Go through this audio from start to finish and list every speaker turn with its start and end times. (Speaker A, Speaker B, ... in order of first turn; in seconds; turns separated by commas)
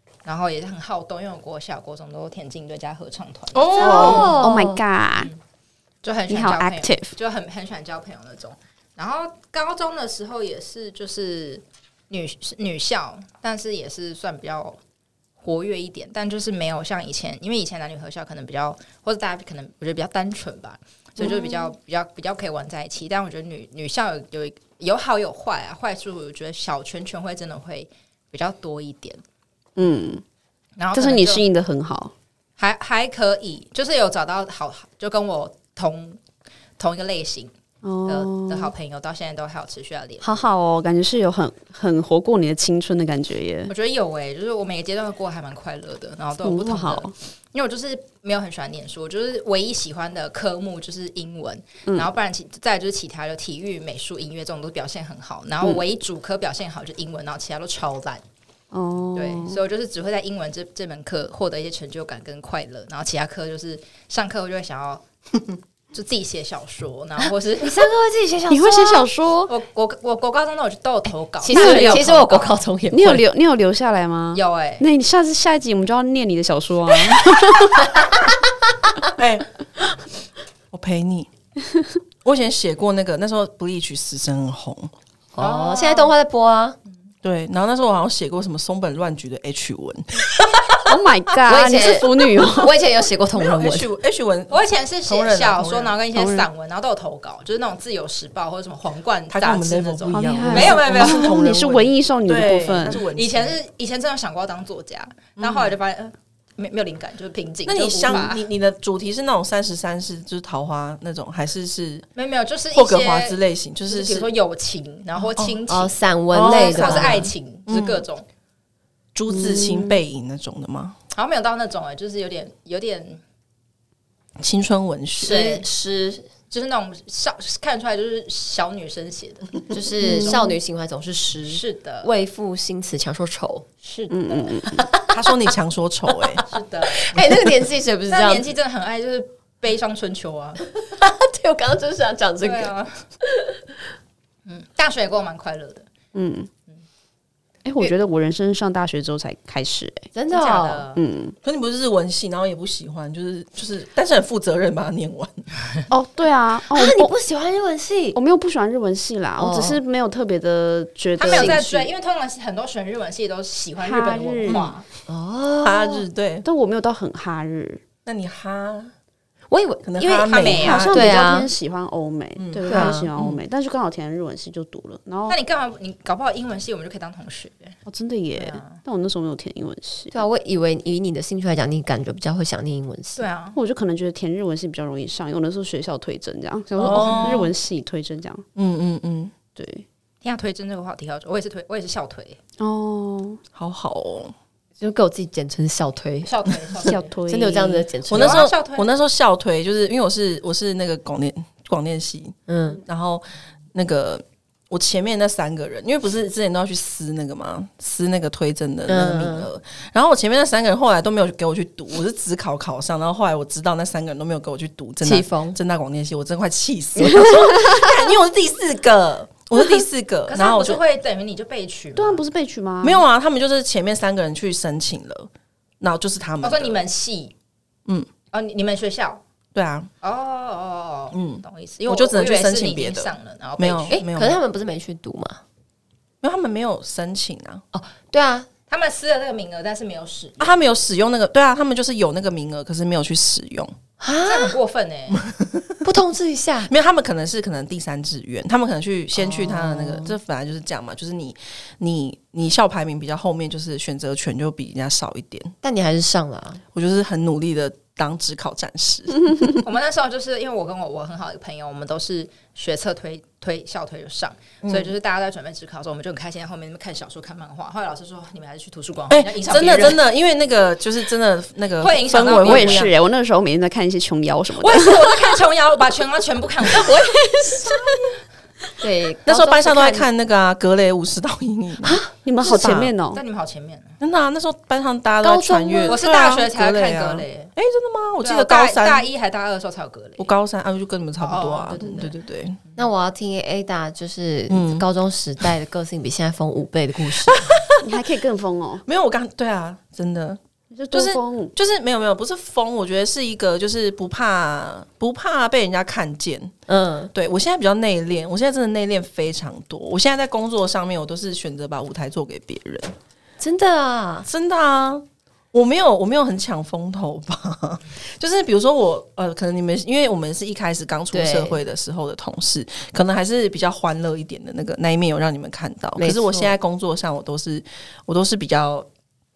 Speaker A: 0.2-4.2, Speaker B: 3.5-4.4, Speaker C: 3.8-5.3, Speaker D: 3.8-4.8, Speaker A: 6.0-14.8, Speaker C: 6.3-7.1, Speaker A: 15.4-29.2, Speaker C: 29.8-30.2, Speaker A: 30.8-31.4, Speaker C: 30.9-32.1, Speaker A: 32.6-36.2, Speaker A: 36.8-37.5, Speaker C: 37.8-38.7, Speaker A: 38.1-40.3, Speaker C: 40.2-43.7, Speaker A: 43.7-58.2, Speaker C: 46.4-47.1, Speaker C: 58.7-59.6, Speaker A: 59.1-65.0, Speaker A: 65.9-67.9, Speaker D: 67.2-69.1, Speaker C: 68.5-69.5, Speaker A: 69.5-72.6, Speaker D: 71.4-73.2, Speaker C: 71.5-72.1, Speaker C: 72.9-77.9, Speaker A: 74.3-74.8, Speaker B: 79.2-79.5, Speaker B: 80.7-81.3, Speaker B: 82.2-84.9, Speaker D: 85.3-86.8, Speaker A: 85.4-86.1, Speaker B: 87.2-90.7, Speaker C: 90.8-92.8, Speaker D: 91.5-93.9, Speaker B: 93.3-96.0, Speaker A: 94.5-101.4, Speaker C: 96.1-96.5, Speaker B: 99.3-103.6, Speaker C: 100.1-103.0, Speaker A: 103.1-108.4, Speaker B: 105.4-105.7, Speaker B: 107.6-112.0, Speaker A: 112.1-118.2, Speaker B: 112.7-114.3, Speaker B: 115.3-115.6, Speaker D: 115.7-117.3, Speaker B: 116.3-118.0, Speaker B: 119.1-121.0, Speaker C: 119.3-120.0, Speaker A: 121.1-123.2, Speaker B: 124.4-125.4, Speaker D: 125.2-126.3, Speaker A: 125.2-125.7, Speaker A: 126.5-130.4, Speaker D: 129.7-133.7, Speaker C: 130.0-130.5, Speaker A: 131.5-132.1, Speaker A: 133.8-134.5, Speaker C: 134.1-134.8, Speaker D: 134.7-135.1, Speaker B: 135.1-136.4, Speaker A: 136.4-137.2, Speaker D: 136.8-138.5, Speaker A: 138.1-140.6, Speaker D: 140.8-143.6, Speaker A: 142.4-143.0, Speaker A: 144.4-145.9, Speaker C: 146.1-146.5, Speaker C: 147.6-150.1, Speaker D: 150.1-150.9, Speaker A: 150.3-151.0, Speaker C: 150.9-151.3, Speaker B: 151.4-155.4, Speaker C: 155.9-157.1, Speaker D: 156.7-158.2, Speaker C: 158.1-161.9, Speaker D: 159.4-159.8, Speaker A: 161.2-164.8, Speaker D: 161.3-161.6, Speaker C: 163.8-164.7, Speaker D: 164.5-166.0, Speaker B: 165.6-166.4, Speaker C: 166.4-167.8, Speaker B: 168.1-168.9, Speaker D: 169.5-170.1, Speaker B: 169.8-171.2, Speaker A: 170.0-170.9, Speaker C: 170.6-175.4, Speaker D: 170.8-171.5, Speaker B: 172.3-173.4, Speaker D: 172.7-173.1, Speaker A: 175.3-177.7, Speaker C: 177.9-180.1, Speaker A: 178.3-178.8, Speaker D: 180.1-183.2, Speaker A: 183.2-183.6, Speaker C: 183.5-188.4, Speaker B: 186.8-187.5, Speaker A: 186.8-187.5, Speaker B: 188.5-189.3, Speaker C: 189.6-189.8, Speaker A: 190.2-192.4, Speaker C: 192.6-193.4, Speaker B: 193.5-194.3, Speaker D: 194.8-196.3, Speaker A: 196.2-197.1, Speaker C: 196.8-197.8, Speaker D: 197.3-198.5, Speaker B: 198.1-220.8, Speaker A: 198.1-198.9, Speaker D: 202.5-202.8, Speaker D: 208.9-209.5, Speaker D: 215.0-215.6, Speaker A: 220.3-222.2, Speaker C: 221.9-223.0, Speaker B: 222.8-225.3, Speaker B: 225.8-226.8, Speaker A: 226.4-227.3, Speaker A: 228.3-229.2, Speaker B: 229.5-229.9, Speaker A: 230.0-233.9, Speaker B: 231.1-234.4, Speaker D: 233.9-235.4, Speaker B: 236.2-237.6, Speaker D: 237.7-238.5, Speaker A: 238.7-240.5, Speaker B: 240.4-243.7, Speaker D: 244.0-244.6, Speaker A: 244.2-245.2, Speaker B: 245.1-245.8, Speaker D: 245.8-246.7, Speaker B: 246.7-255.5, Speaker D: 249.2-250.2, Speaker D: 255.6-256.6, Speaker B: 256.7-259.6, Speaker A: 259.6-270.0, Speaker B: 264.6-264.9, Speaker B: 269.1-272.9, Speaker A: 271.8-272.9, Speaker C: 272.4-275.2, Speaker A: 274.6-277.1, Speaker C: 276.7-278.2, Speaker D: 278.8-280.1, Speaker B: 279.2-282.9, Speaker C: 281.8-283.2, Speaker A: 283.1-283.9, Speaker B: 284.0-289.1, Speaker D: 285.2-286.0, Speaker A: 285.9-287.5, Speaker A: 288.2-290.3, Speaker B: 290.2-292.6, Speaker A: 291.2-292.0, Speaker D: 291.7-292.1, Speaker D: 292.8-297.5, Speaker B: 294.5-294.8, Speaker B: 297.2-297.7, Speaker C: 297.8-298.8, Speaker B: 298.9-300.4, Speaker C: 300.7-301.5, Speaker B: 300.9-306.5, Speaker D: 306.7-307.1, Speaker B: 307.1-312.9, Speaker D: 313.4-314.3, Speaker B: 314.2-328.9, Speaker D: 321.1-321.6, Speaker D: 326.0-326.6